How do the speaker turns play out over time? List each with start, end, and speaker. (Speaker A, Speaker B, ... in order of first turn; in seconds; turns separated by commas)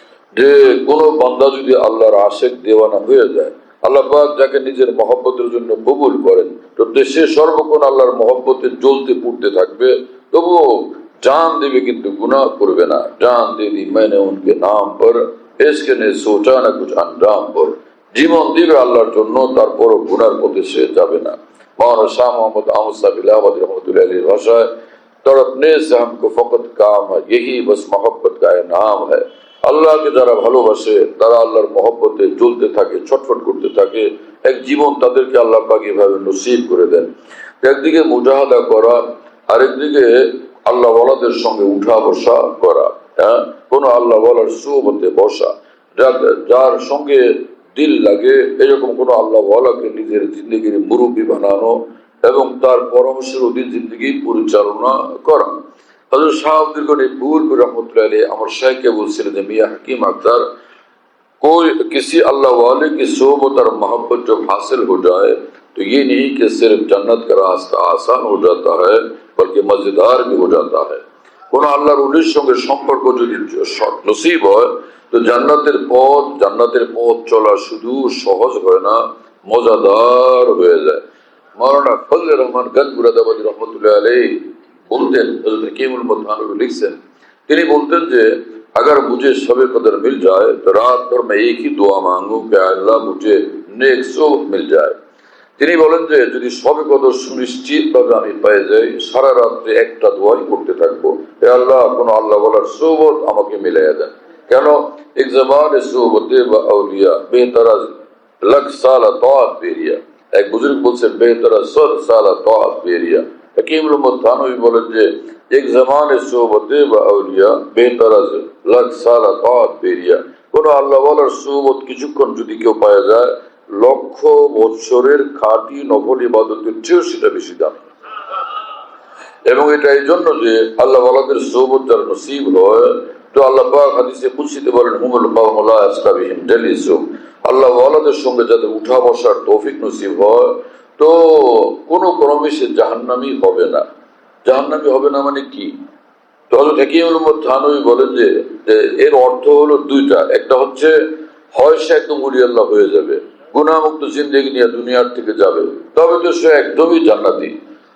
Speaker A: 0.3-24.7, Speaker A: 25.2-37.1, Speaker A: 37.6-55.5, Speaker A: 56.1-60.5, Speaker A: 61.4-81.0, Speaker A: 81.6-95.0, Speaker A: 95.6-107.9, Speaker A: 108.4-127.8, Speaker A: 129.4-143.8, Speaker A: 144.4-145.8, Speaker A: 146.5-151.0, Speaker A: 151.5-157.6